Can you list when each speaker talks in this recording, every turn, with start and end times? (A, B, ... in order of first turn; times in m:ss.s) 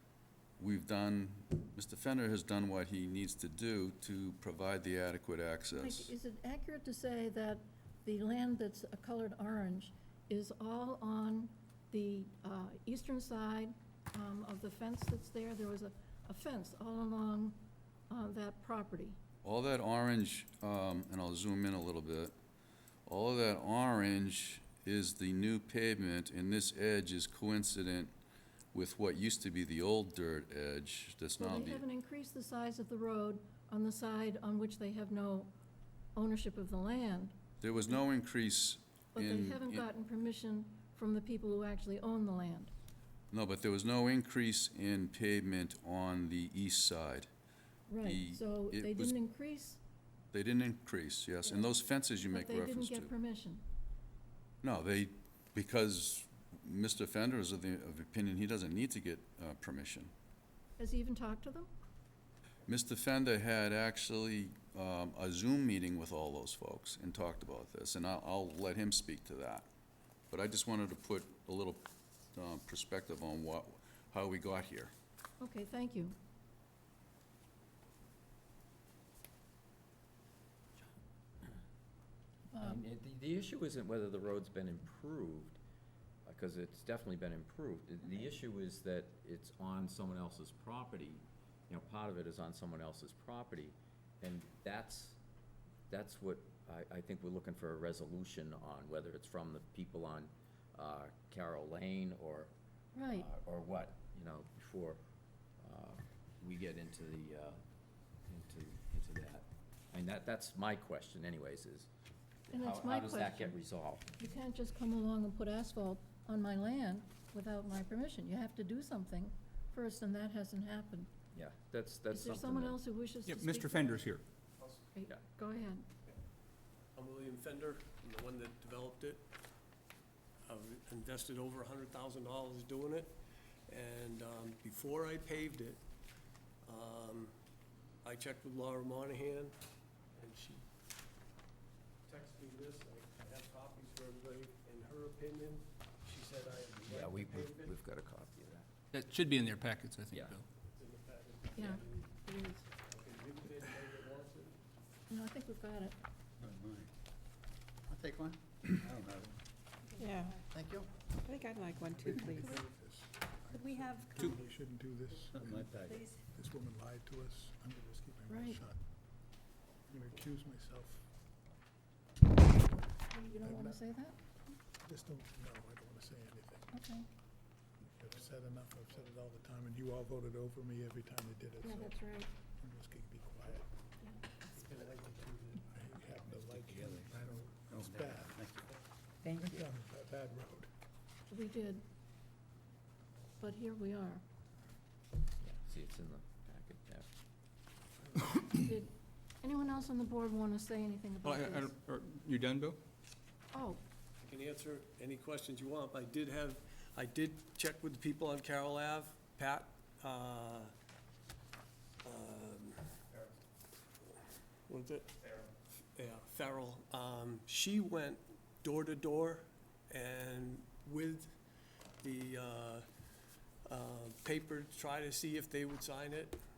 0:00.6-0:06.1 A
0:05.7-0:19.2 B
0:19.4-0:22.3 A
0:23.0-0:28.1 A
0:28.7-0:31.8 A
0:31.4-0:35.5 B
0:36.2-0:37.9 B
0:37.6-0:39.8 A
0:39.1-0:42.7 B
0:43.3-0:47.3 A
0:47.9-0:49.8 B
0:48.0-0:49.2 A
0:50.3-0:53.1 A
0:51.4-0:51.7 B
0:52.2-0:53.6 B
0:54.6-1:00.1 A
1:00.8-1:01.7 B
1:02.7-1:09.7 A
1:10.3-1:14.9 A
1:15.4-1:16.1 B
1:22.5-1:22.8 B
1:22.6-1:25.6 C
1:26.2-1:35.2 C
1:35.9-1:42.5 C
1:42.9-1:43.3 B
1:43.1-1:45.0 C
1:45.6-1:47.6 C
1:48.3-1:51.9 C
1:52.5-1:54.1 C
1:52.5-1:53.5 B
1:54.2-2:01.1 B
2:01.3-2:02.8 C
2:02.1-2:04.1 B
2:03.2-2:04.2 D
2:04.6-2:04.8 E
2:04.9-2:05.8 B
2:07.0-2:09.2 E
2:10.4-2:13.1 E
2:13.7-2:15.8 E
2:16.6-2:17.3 E
2:18.0-2:19.6 E
2:20.1-2:20.6 E
2:22.0-2:27.7 E
2:26.8-2:28.7 C
2:28.9-2:30.4 D
2:30.7-2:32.2 E
2:31.5-2:32.6 B
2:32.9-2:34.6 E
2:35.1-2:36.0 B
2:36.4-2:36.9 F
2:37.9-2:39.4 F
2:40.0-2:40.4 G
2:40.5-2:41.4 F
2:41.2-2:42.6 G
2:41.7-2:48.8 H
2:43.5-2:44.0 G
2:45.3-2:46.1 F
2:48.3-2:48.6 B
2:49.9-2:51.1 H
2:52.6-2:52.9 H
2:53.1-2:54.1 B
2:53.4-2:53.8 H
2:54.8-2:56.8 H
2:56.7-2:57.0 B
2:57.8-3:02.0 H
3:01.6-3:02.3 B
3:02.6-3:03.7 H
3:04.5-3:05.7 E
3:05.7-3:08.4 H
3:06.3-3:08.7 F
3:09.2-3:10.7 H
3:11.3-3:11.8 B
3:13.4-3:14.2 B
3:15.4-3:17.1 C
3:18.5-3:21.8 B
3:21.2-3:22.8 D
3:23.5-3:23.8 B
3:24.2-3:30.7 E
3:32.0-3:33.2 E
3:34.7-3:35.4 E
3:36.0-3:41.3 E
3:42.0-3:42.8 E
3:43.6-3:46.4 E